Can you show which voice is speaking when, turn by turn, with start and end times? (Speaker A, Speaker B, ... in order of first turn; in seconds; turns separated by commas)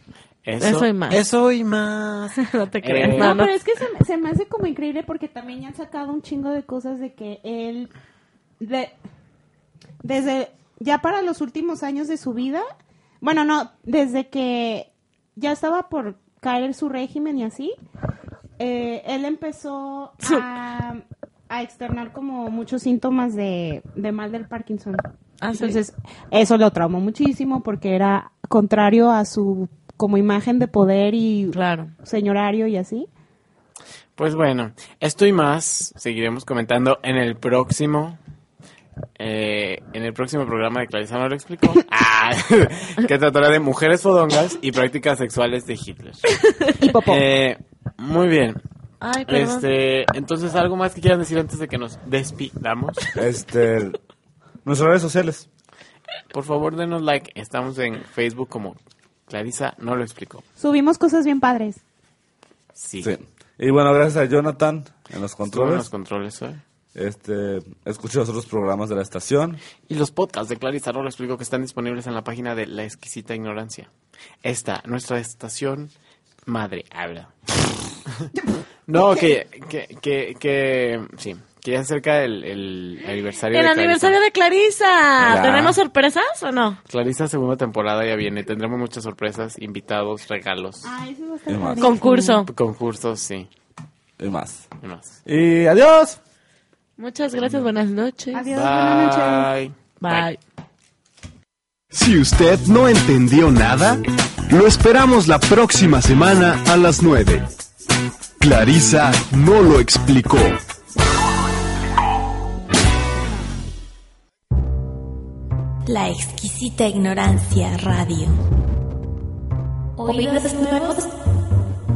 Speaker A: 0.4-3.4, Speaker B: 0.6-1.2, Speaker B: 2.4-3.5, Speaker C: 3.1-7.9, Speaker C: 8.6-8.9, Speaker C: 10.0-12.7, Speaker C: 13.2-17.7, Speaker C: 18.6-25.0, Speaker B: 25.4-25.8, Speaker C: 25.5-33.1, Speaker B: 31.5-31.9, Speaker A: 34.2-38.2, Speaker A: 39.2-46.4, Speaker C: 46.8-47.2, Speaker A: 47.0-48.6, Speaker B: 49.0-49.6, Speaker A: 49.3-53.1, Speaker D: 53.1-54.0, Speaker D: 54.6-55.5, Speaker A: 56.3-58.8, Speaker A: 59.3-60.4, Speaker C: 60.6-61.8, Speaker A: 62.7-63.1, Speaker D: 63.0-65.9, Speaker A: 65.5-66.6, Speaker D: 66.9-69.6, Speaker A: 69.9-73.9, Speaker A: 74.4-75.9, Speaker A: 76.5-78.2, Speaker C: 78.4-79.0, Speaker A: 78.9-84.2, Speaker B: 83.5-86.8, Speaker D: 85.2-85.8, Speaker A: 86.9-90.9, Speaker C: 90.8-92.5, Speaker D: 91.5-91.9, Speaker B: 91.8-92.5, Speaker A: 92.5-93.5, Speaker D: 94.2-94.7, Speaker A: 94.8-95.2, Speaker D: 95.2-96.2, Speaker B: 97.0-98.5, Speaker C: 98.3-99.5, Speaker A: 98.5-100.3, Speaker B: 100.0-100.4, Speaker E: 101.9-107.5, Speaker E: 108.4-110.6, Speaker F: 115.8-118.4, Speaker F: 120.0-121.1